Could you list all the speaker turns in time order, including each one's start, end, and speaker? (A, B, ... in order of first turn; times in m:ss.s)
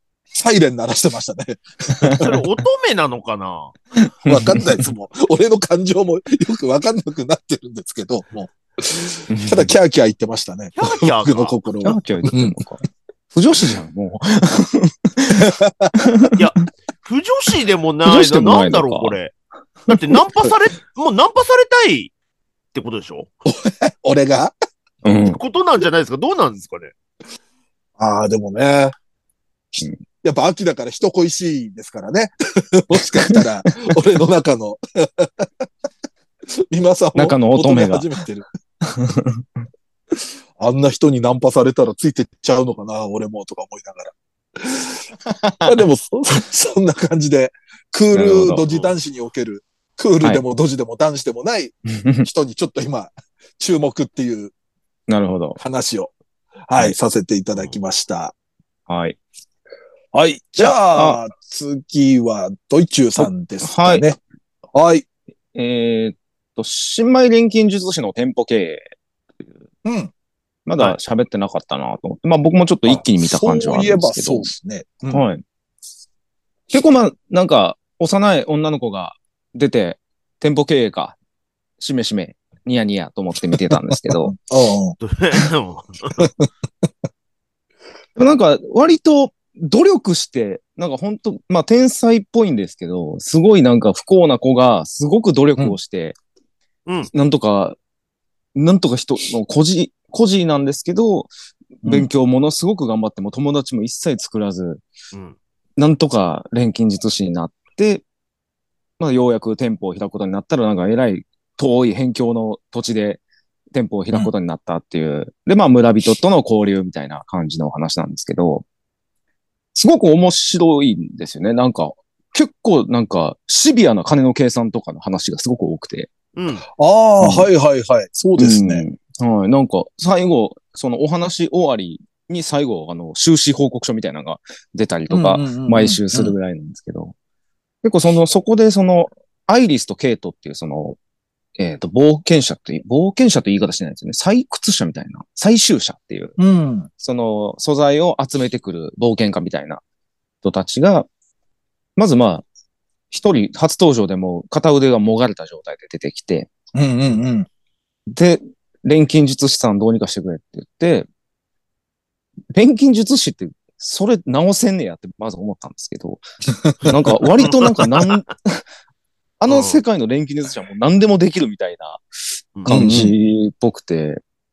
0:00.3-0:02.3 A
0:02.0-0:02.3 B
0:02.2-0:03.8 C
0:04.2-0:04.8 B
0:04.2-0:12.6 A
0:09.3-0:09.7 B
0:10.8-0:11.6 C
0:11.8-0:12.8 B
0:13.3-0:15.4 B
0:15.3-0:16.0 A
0:16.0-0:16.4 B
0:16.3-0:19.3 C
0:18.0-0:19.2 B
0:19.9-0:22.1 C
0:19.9-0:20.1 B
0:22.7-0:23.3 C
0:23.4-0:24.5 A
0:25.0-0:25.4 B
0:25.2-0:26.9 C
0:28.0-0:28.9 A
0:30.2-0:35.5 A
0:36.7-0:38.4 A
0:37.2-0:38.0 B
0:38.8-0:39.4 B
0:40.6-0:45.0 A
0:45.3-0:45.8 B
0:45.6-0:54.5 A
0:48.1-0:48.6 B
0:48.7-0:48.9 C
0:55.1-0:55.6 B
0:55.6-0:56.1 A
0:56.7-0:58.3 A
0:58.9-0:59.2 B
1:00.1-1:04.2 A
1:00.6-1:01.2 B
1:03.2-1:04.1 B
1:04.7-1:05.0 A
1:05.5-1:09.5 B
1:09.8-1:10.1 A
1:10.6-1:14.5 B
1:12.9-1:15.2 A
1:15.1-1:15.4 B
1:16.7-1:21.2 B
1:21.8-1:24.3 B
1:23.7-1:25.0 A
1:25.0-1:26.3 C
1:26.2-1:26.5 A
1:28.2-1:36.2 B
1:37.1-1:37.8 B
1:38.5-1:41.3 B
1:41.8-1:42.1 A
1:41.8-1:44.8 B
1:45.8-1:48.0 B
1:49.0-1:53.2 B
1:53.7-1:58.6 B
1:59.7-2:06.1 B
2:06.4-2:06.6 C
2:06.8-2:08.8 A
2:07.2-2:07.5 B
2:08.4-2:17.1 B
2:15.1-2:16.3 A
2:17.8-2:21.0 B
2:21.6-2:26.3 B
2:26.4-2:26.9 A
2:27.0-2:29.8 B
2:30.4-2:31.1 B
2:32.0-2:32.4 B
2:33.1-2:36.5 B
2:36.7-2:37.5 A
2:38.1-2:41.1 B
2:42.5-2:46.2 B
2:46.8-2:48.6 B
2:47.4-2:48.2 C
2:49.4-2:52.0 B
2:49.5-2:49.8 C
2:52.6-2:54.2 B
2:52.7-2:53.1 A